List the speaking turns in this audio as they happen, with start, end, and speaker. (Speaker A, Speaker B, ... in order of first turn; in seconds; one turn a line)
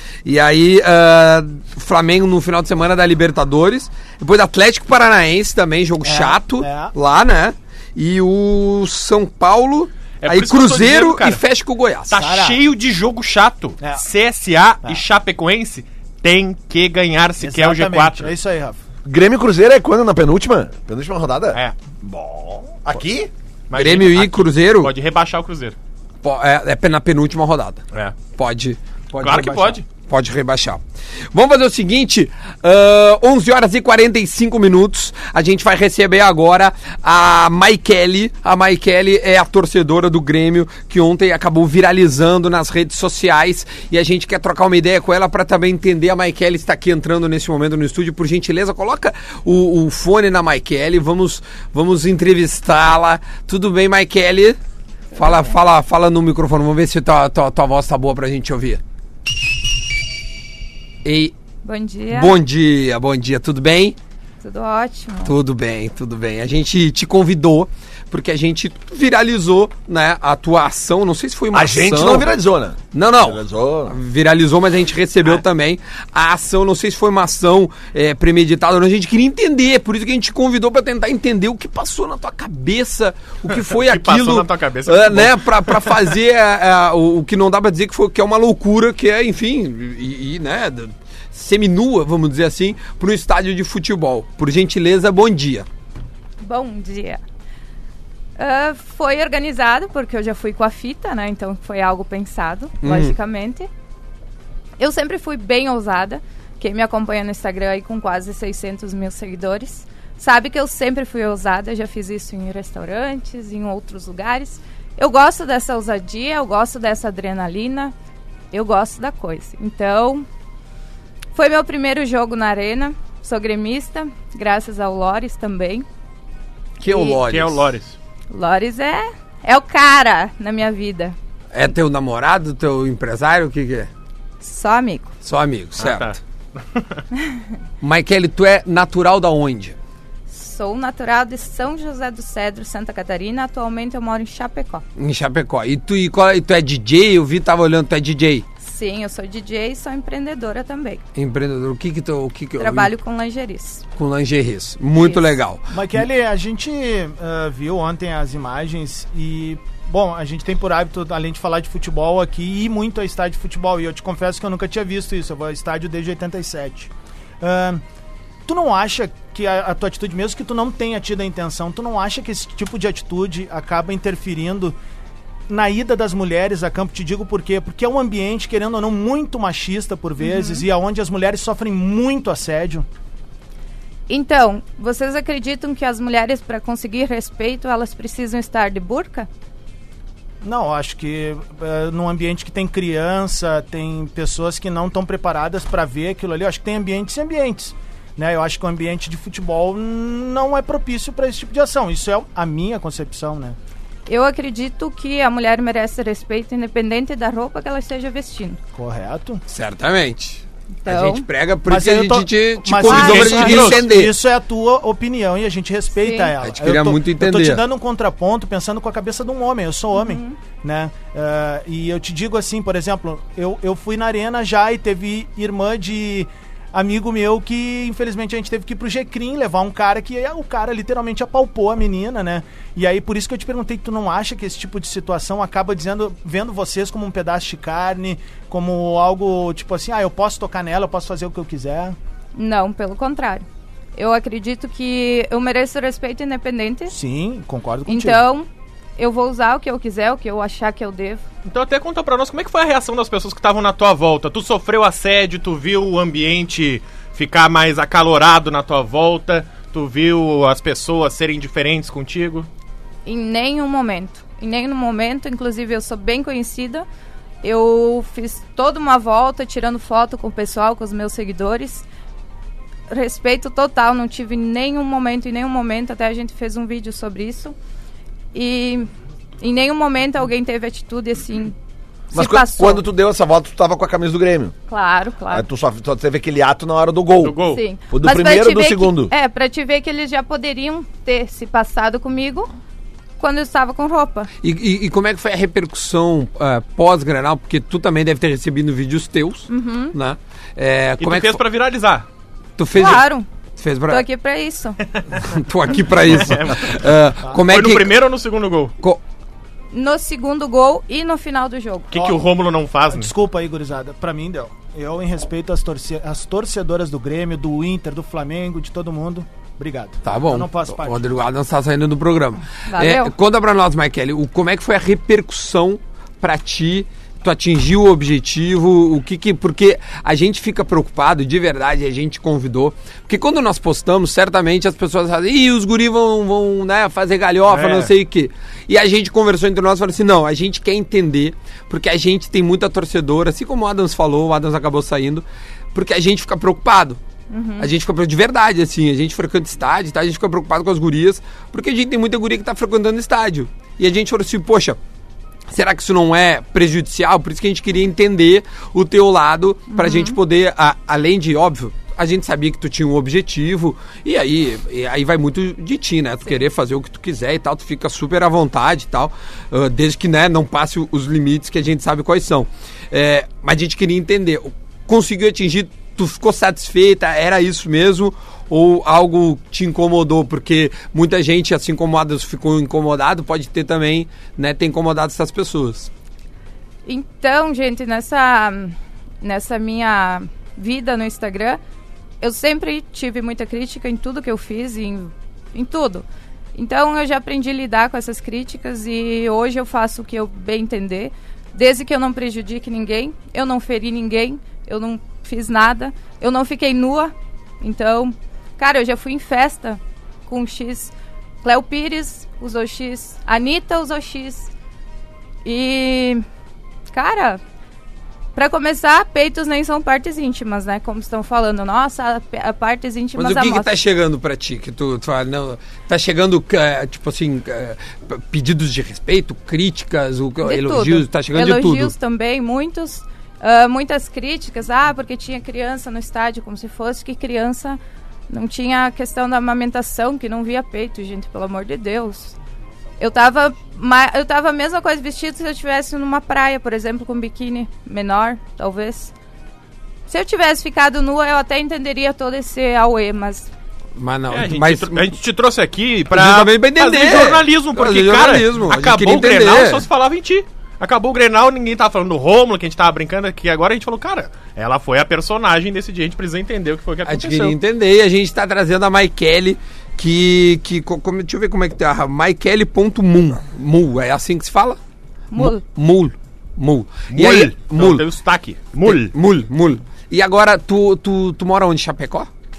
Speaker A: 0.2-12.1
Speaker B: 6.0-6.9
Speaker C: 10.2-11.4
Speaker C: 12.1-18.3
Speaker B: 12.1-12.6
Speaker B: 17.4-18.8
Speaker D: 19.0-23.3
Speaker C: 22.9-25.8
Speaker A: 23.8-24.9
Speaker A: 26.2-27.8
Speaker A: 28.3-30.8
Speaker C: 29.2-29.8
Speaker A: 31.3-54.6
Speaker E: 55.1-55.5
Speaker A: 55.1-58.8
Speaker A: 61.0-61.3
Speaker E: 61.6-62.4
Speaker A: 62.1-64.0
Speaker E: 64.4-65.3
Speaker A: 65.2-72.3
Speaker D: 71.5-74.0
Speaker A: 72.9-95.7
Speaker C: 83.5-86.1
Speaker E: 96.4-97.2
Speaker E: 98.4-103.7
Speaker A: 102.8-103.2
Speaker E: 104.8-117.9
Speaker E: 118.5-120.2
Speaker E: 121.3-125.8
Speaker A: 126.8-127.7
Speaker E: 126.9-127.2
Speaker C: 127.0-128.0
Speaker E: 128.3-131.2
Speaker A: 131.5-133.9
Speaker E: 134.4-135.1
Speaker A: 135.2-136.2
Speaker C: 135.8-137.0
Speaker A: 137.8-139.8
Speaker E: 140.3-144.8
Speaker A: 145.0-148.4
Speaker E: 148.6-151.0
Speaker A: 151.2-152.9
Speaker E: 152.6-153.8
Speaker A: 153.9-155.6
Speaker E: 155.0-155.2
Speaker B: 155.7-166.9
Speaker B: 167.4-167.8
Speaker B: 168.4-174.8
Speaker B: 175.5-182.8
Speaker E: 180.2-180.7
Speaker E: 184.1-189.3
Speaker B: 190.4-203.6
Speaker E: 204.1-208.6
Speaker B: 208.7-209.4
Speaker A: 209.5-214.1
Speaker E: 210.8-211.2
Speaker B: 211.7-241.9
Speaker E: 212.8-213.6
Speaker C: 213.0-213.8
Speaker E: 216.0-216.3
Speaker A: 216.4-217.6
Speaker E: 219.9-220.3
Speaker E: 242.3-246.9
Speaker B: 246.9-248.2
Speaker E: 247.9-251.2
Speaker C: 251.4-262.5
Speaker E: 263.1-266.9
Speaker E: 267.4-271.8
Speaker E: 272.9-277.5
Speaker E: 278.3-278.9
Speaker E: 279.4-281.5
Speaker E: 282.1-282.8
Speaker D: 282.1-284.5
Speaker E: 284.7-285.4
Speaker D: 285.3-289.1
Speaker C: 287.2-287.6
Speaker E: 287.5-292.5
Speaker E: 293.2-294.3
Speaker A: 294.4-301.4
Speaker E: 299.5-299.9
Speaker C: 301.0-302.1
Speaker A: 302.6-304.0
Speaker E: 302.7-303.3
Speaker E: 303.9-304.8
Speaker A: 305.2-307.9
Speaker C: 305.9-308.7
Speaker E: 309.7-311.9
Speaker C: 311.9-313.1
Speaker B: 311.9-312.2
Speaker B: 312.9-321.1
Speaker A: 320.1-347.0
Speaker E: 322.7-323.1
Speaker C: 337.5-337.9
Speaker E: 347.3-347.7
Speaker A: 347.6-354.8
Speaker A: 355.5-385.9
Speaker E: 359.7-360.2
Speaker E: 386.9-391.6
Speaker E: 392.2-410.9
Speaker E: 411.4-414.5
Speaker E: 415.4-416.2
Speaker E: 416.9-417.4
Speaker E: 418.3-423.7
Speaker A: 423.1-431.9
Speaker E: 430.4-442.3
Speaker E: 443.0-449.1
Speaker E: 450.1-453.5
Speaker A: 453.9-455.1
Speaker C: 454.3-467.6
Speaker A: 456.1-459.9
Speaker A: 467.1-474.8
Speaker E: 475.3-475.6
Speaker A: 475.4-478.1
Speaker C: 477.1-479.1
Speaker A: 478.8-482.3